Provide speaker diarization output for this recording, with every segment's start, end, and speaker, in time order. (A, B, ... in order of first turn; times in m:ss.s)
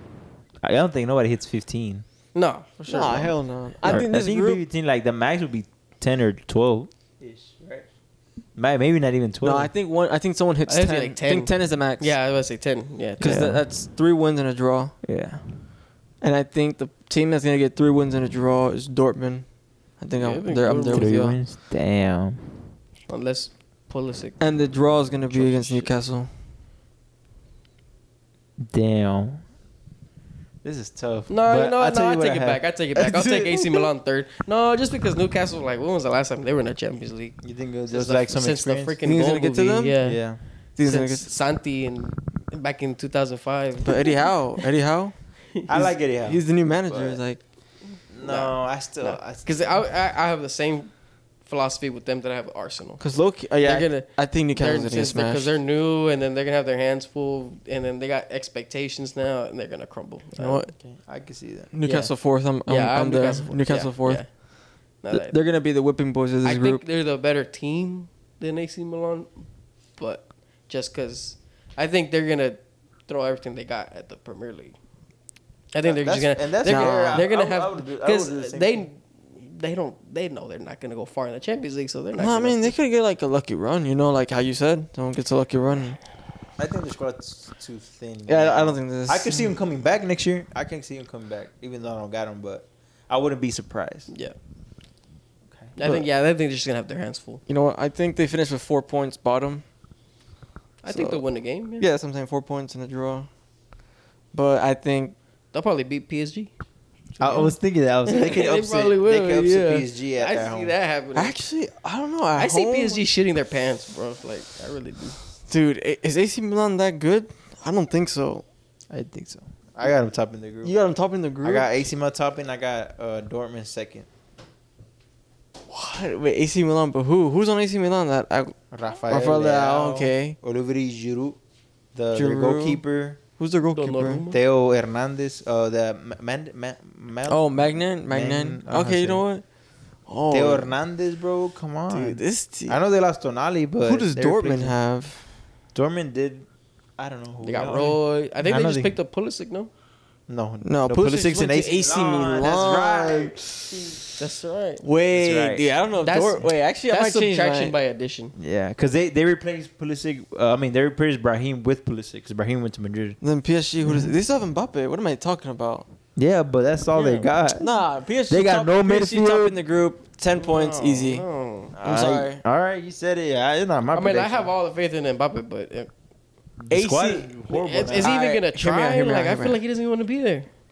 0:00.6-0:02.0 A
0:02.3-0:03.4 B
0:02.9-0:04.6 C
0:03.8-0:07.9 A
0:08.6-0:09.7 A
0:09.4-0:12.1 C
0:10.7-0:13.5 B
0:13.2-0:15.0 C
0:13.2-0:13.6 A
0:15.0-0:15.4 A
0:16.2-0:19.5 C
0:20.0-0:21.4 C
0:20.2-0:21.2 B
0:20.8-0:22.6 A
0:23.1-0:24.4 B
0:24.4-0:26.3 C
0:25.3-0:25.9 B
0:28.6-0:29.4 A
0:30.6-0:32.6 A
0:31.3-0:40.2 B
0:33.0-0:33.9 C
0:37.4-0:39.0 A
0:39.0-0:40.0 C
0:40.0-0:40.4 A
0:40.8-0:41.3 C
0:40.8-0:44.6 B
0:43.8-0:45.2 C
0:45.7-0:47.2 A
0:45.7-0:47.4 C
0:48.1-0:49.8 A
0:48.2-0:50.9 B
0:51.5-0:53.0 B
0:53.0-0:55.6 C
0:53.6-1:00.7 B
1:00.4-1:00.7 C
1:00.8-1:01.7 A
1:01.7-1:04.2 C
1:01.8-1:02.1 B
1:02.7-1:04.3 B
1:05.0-1:05.4 B
1:05.1-1:06.8 C
1:06.4-1:09.3 B
1:10.0-1:14.8 B
1:15.7-1:22.8 B
1:15.8-1:18.8 A
1:16.7-1:17.3 C
1:22.2-1:26.0 C
1:26.6-1:34.1 A
1:28.3-1:29.5 C
1:34.1-1:34.4 B
1:35.8-1:37.4 B
1:37.5-1:39.6 C
1:40.8-1:41.9 B
1:40.9-1:41.2 C
1:41.8-1:43.3 C
1:44.3-1:45.2 C
1:45.5-1:46.5 B
1:47.2-1:51.4 B
1:47.2-1:50.7 A
1:51.2-1:53.0 C
1:52.4-1:55.2 B
1:55.5-1:58.4 C
1:58.9-2:00.7 A
2:00.6-2:01.7 C
2:01.4-2:04.1 A
2:05.7-2:08.6 C
2:08.7-2:11.4 A
2:09.1-2:10.4 C
2:12.0-2:13.2 A
2:12.1-2:12.8 C
2:13.4-2:14.3 C
2:13.7-2:14.4 B
2:14.3-2:19.2 A
2:17.3-2:19.4 C
2:20.1-2:20.8 C
2:20.3-2:24.7 A
2:21.9-2:22.8 C
2:23.8-2:25.2 C
2:25.8-2:26.5 A
2:27.0-2:28.9 A
2:27.4-2:29.7 B
2:30.3-2:33.4 A
2:30.6-2:34.0 C
2:34.1-2:34.8 B
2:34.8-2:37.8 C
2:35.1-2:35.7 A
2:36.0-2:38.3 B
2:38.4-2:43.2 A
2:43.2-2:45.9 C
2:43.8-2:44.1 A
2:46.2-2:47.7 A
2:47.0-2:47.3 B
2:47.6-2:51.3 C
2:48.3-2:49.6 A
2:50.4-2:51.7 B
2:51.8-2:54.5 A
2:51.8-2:52.4 C
2:53.9-2:55.9 B
2:56.6-2:58.2 A
2:56.7-2:57.3 C
2:57.5-3:00.5 B
2:58.0-2:59.6 C